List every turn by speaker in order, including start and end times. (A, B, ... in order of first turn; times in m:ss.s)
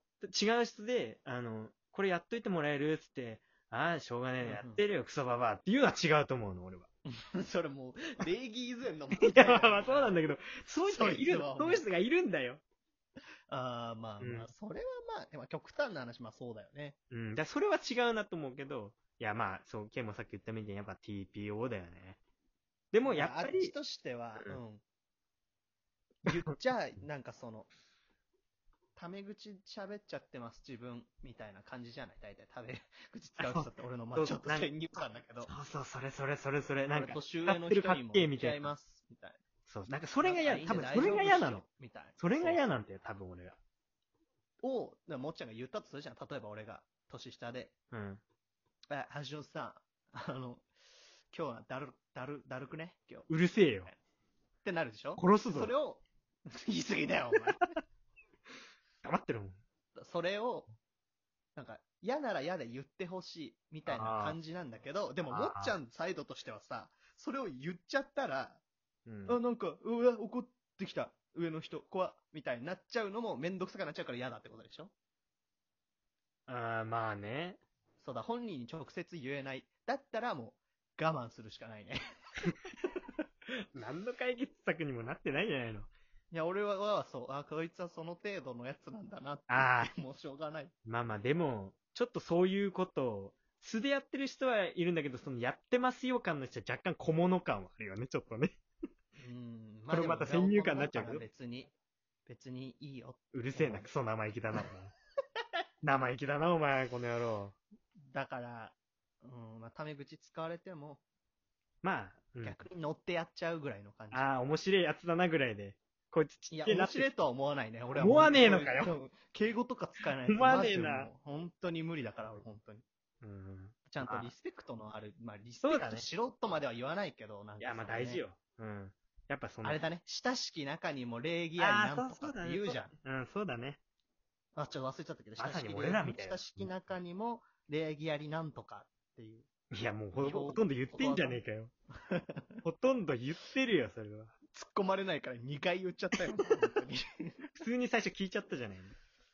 0:00.2-0:06.9 A
0:04.4-0:04.8 B
0:07.1-0:10.2 B
0:09.1-0:12.6 A
0:10.8-0:11.8 B
0:13.5-0:17.0 B
0:14.2-0:14.5 A
0:17.1-0:22.2 A
0:22.9-0:23.7 A
0:23.0-0:24.8 B
0:26.2-0:27.7 B
0:29.0-0:35.5 B
0:33.4-0:34.7 A
0:35.4-0:38.7 A
0:36.9-0:39.4 B
0:39.7-0:41.6 A
0:40.2-0:42.6 B
0:42.2-0:43.6 A
0:44.6-0:47.7 B
0:47.9-0:48.2 A
0:48.9-0:50.7 B
0:51.3-0:54.0 B
0:53.3-0:53.9 A
0:54.6-0:57.7 B
0:55.2-0:55.7 A
0:59.0-0:59.6 A
1:00.0-1:00.7 B
1:01.6-1:08.6 B
1:03.8-1:04.4 A
1:05.3-1:05.7 A
1:09.0-1:09.4 A
1:09.2-1:14.9 B
1:16.5-1:17.6 A
1:18.0-1:22.0 B
1:23.8-1:25.9 A
1:26.3-1:30.7 B
1:29.5-1:29.9 A
1:30.8-1:38.5 A
1:39.2-1:41.7 B
1:39.9-1:41.2 A
1:42.2-1:43.9 B
1:43.3-1:44.9 A
1:45.8-1:47.5 A
1:48.1-1:51.0 B
1:51.8-1:52.6 A
1:52.4-1:54.2 B
1:54.1-1:57.1 A
1:56.5-2:02.8 B
1:57.9-1:58.9 A
2:00.3-2:01.1 A
2:03.2-2:04.3 A
2:03.9-2:08.2 B
2:05.6-2:06.0 A
2:07.6-2:09.8 A
2:09.6-2:12.9 B
2:11.6-2:13.8 A
2:14.5-2:19.5 B
2:15.4-2:16.7 A
2:19.7-2:21.7 A
2:20.2-2:21.4 B
2:22.0-2:22.6 B
2:22.6-2:24.3 A
2:24.5-2:27.5 B
2:27.6-2:29.0 A